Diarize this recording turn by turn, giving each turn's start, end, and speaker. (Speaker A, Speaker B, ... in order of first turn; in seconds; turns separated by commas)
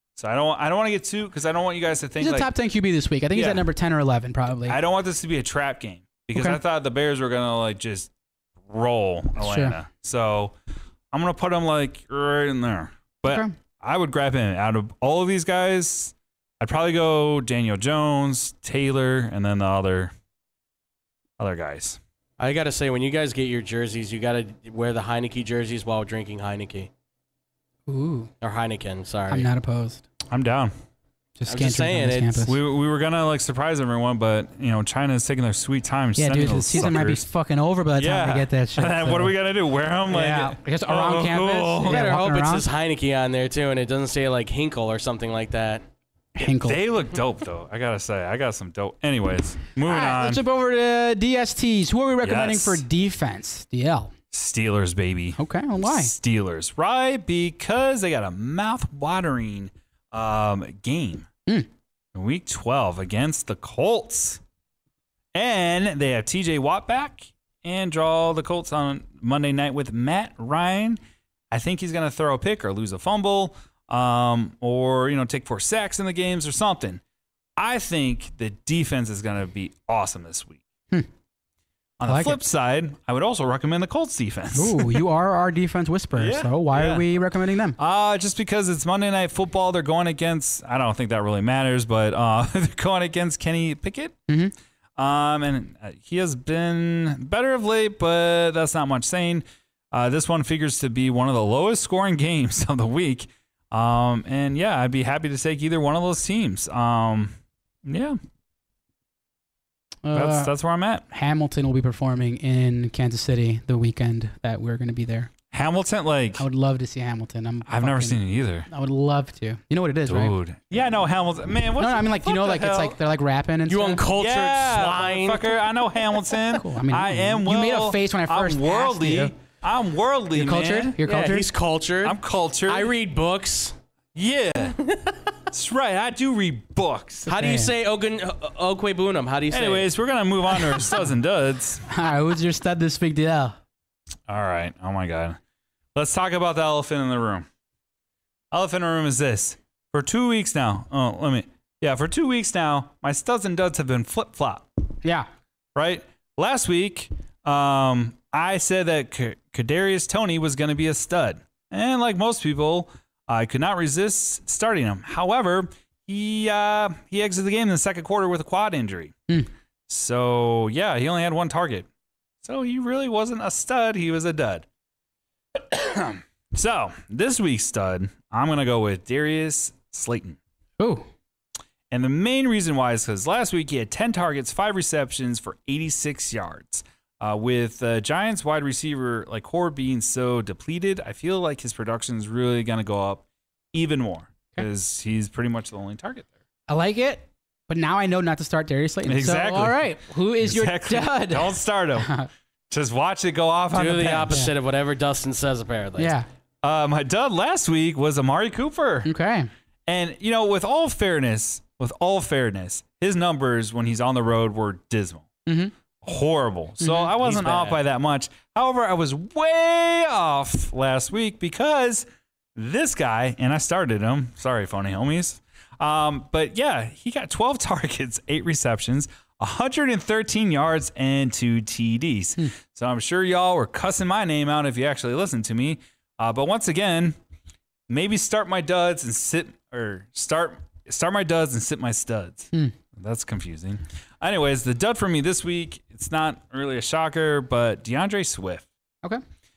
Speaker A: 0.2-2.5, Speaker B: 2.2-4.8, Speaker A: 3.3-3.7, Speaker A: 4.7-8.1, Speaker B: 6.3-6.6, Speaker A: 8.7-10.6, Speaker B: 9.4-9.8, Speaker A: 11.1-20.1, Speaker B: 13.3-13.6, Speaker A: 21.4-22.0, Speaker C: 22.4-26.9, Speaker B: 27.9-28.3, Speaker C: 28.4-29.5, Speaker B: 29.3-30.1, Speaker A: 30.3-30.7, Speaker B: 31.4-32.6, Speaker C: 31.5-32.4, Speaker A: 32.4-37.3, Speaker B: 36.2-39.3, Speaker A: 38.0-42.1, Speaker B: 40.1-42.6, Speaker C: 41.9-45.8, Speaker B: 46.4-46.8, Speaker A: 46.5-50.4, Speaker B: 49.8-54.1, Speaker A: 52.2-52.9, Speaker A: 54.3-61.3, Speaker B: 55.4-56.1, Speaker A: 62.1-64.4, Speaker A: 65.3-71.0, Speaker A: 71.5-77.0, Speaker A: 77.6-80.6, Speaker A: 82.0-85.0, Speaker B: 82.0-82.4, Speaker B: 84.5-87.8, Speaker A: 86.2-87.1, Speaker A: 87.8-94.2, Speaker B: 94.3-94.5, Speaker A: 95.0-108.2, Speaker B: 110.0-110.5, Speaker A: 110.1-111.0, Speaker B: 111.1-115.3, Speaker A: 115.5-116.4, Speaker B: 116.4-120.4, Speaker A: 117.7-118.7, Speaker A: 120.1-123.0, Speaker B: 121.8-124.0, Speaker C: 123.7-125.6, Speaker A: 124.2-131.0, Speaker B: 126.5-129.3, Speaker B: 130.3-131.5, Speaker C: 131.0-133.8, Speaker A: 132.0-132.9, Speaker A: 134.2-134.8, Speaker C: 134.8-135.2, Speaker A: 135.5-137.3, Speaker C: 137.3-139.9, Speaker B: 137.3-137.7, Speaker A: 139.5-141.8, Speaker B: 141.9-143.6, Speaker A: 144.3-145.4, Speaker A: 145.9-147.5, Speaker A: 148.5-154.7, Speaker A: 155.8-169.1, Speaker A: 169.9-171.9, Speaker A: 172.4-174.7, Speaker A: 175.6-180.4, Speaker B: 180.8-181.1, Speaker A: 181.9-196.3, Speaker B: 196.7-202.3, Speaker A: 199.1-199.9, Speaker A: 200.4-202.1, Speaker A: 202.7-204.4, Speaker C: 203.7-206.1, Speaker B: 206.0-206.3, Speaker A: 206.6-209.1, Speaker B: 209.0-209.5, Speaker A: 209.9-215.3, Speaker B: 215.4-215.7, Speaker A: 216.0-237.2, Speaker B: 216.8-217.1, Speaker C: 217.2-217.8, Speaker A: 237.9-248.7